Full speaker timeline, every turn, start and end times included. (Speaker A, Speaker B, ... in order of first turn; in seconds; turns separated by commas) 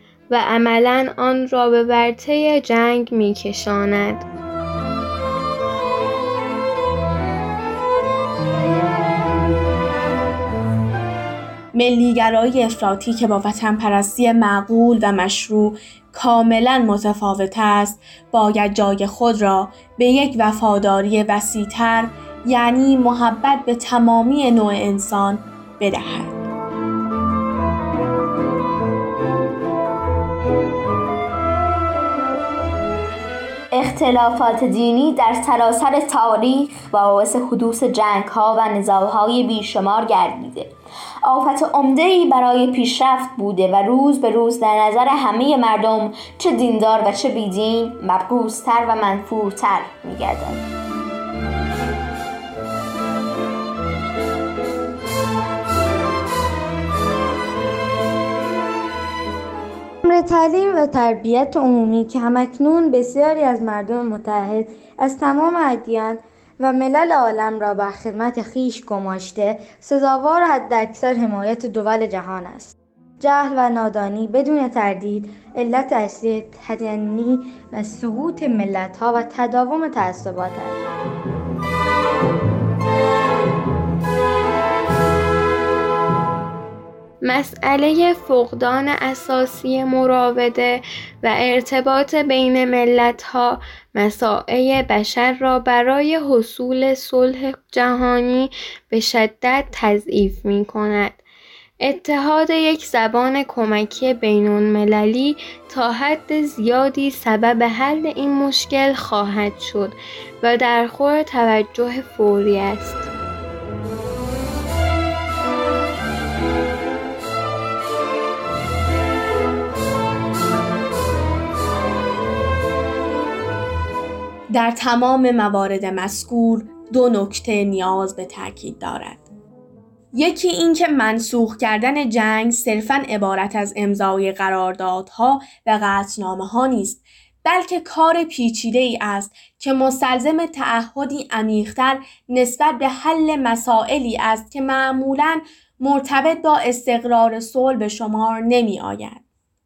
Speaker A: 0.3-4.2, Speaker B: 11.8-26.4, Speaker C: 33.7-50.6, Speaker D: 60.0-80.8, Speaker A: 87.2-101.2, Speaker A: 101.8-113.1, Speaker B: 124.5-129.3, Speaker B: 130.1-149.2